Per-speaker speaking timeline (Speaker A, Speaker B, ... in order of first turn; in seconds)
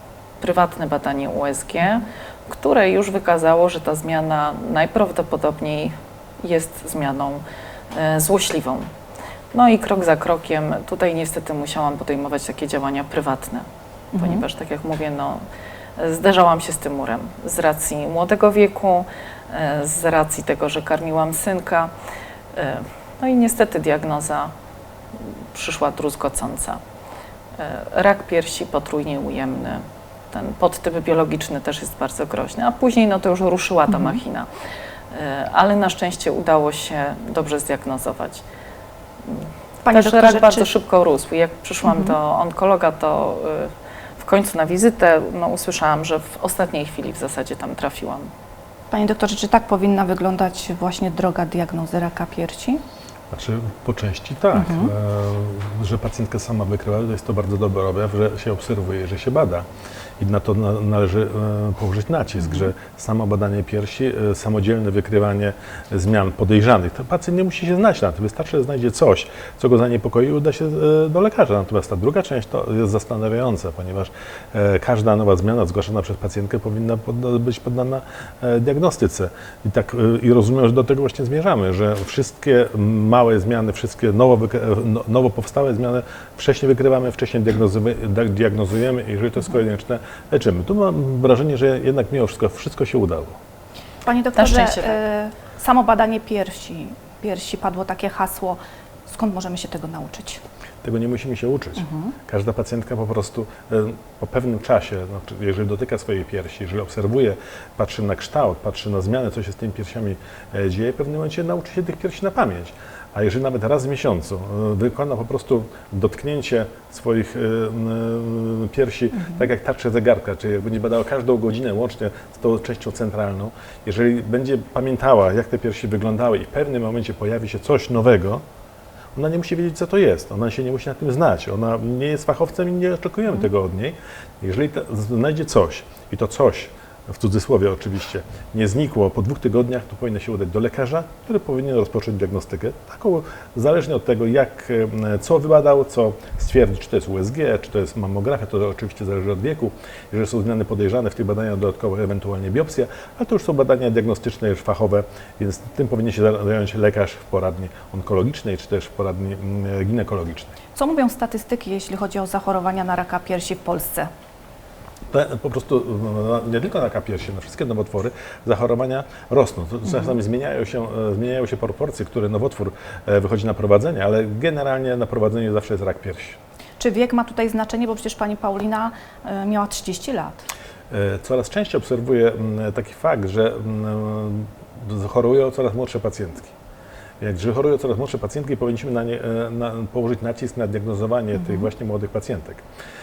Speaker A: 0.4-8.9, 9.5-15.4, 16.0-21.9, 22.5-24.5, 25.1-26.8, 27.6-34.5, 35.1-38.4, 39.3-48.3, 94.4-95.0
Speaker B: 14.1-14.4, 33.9-34.2, 39.9-40.7, 41.9-42.2, 48.9-52.8, 54.5-54.9, 94.0-100.4, 101.8-102.1, 119.2-119.5, 160.7-164.1, 176.8-180.5, 191.3-191.7
Speaker C: 53.3-59.7, 60.2-93.4, 100.8-128.4, 129.2-160.5, 165.1-176.4, 180.9-186.5, 187.2-192.6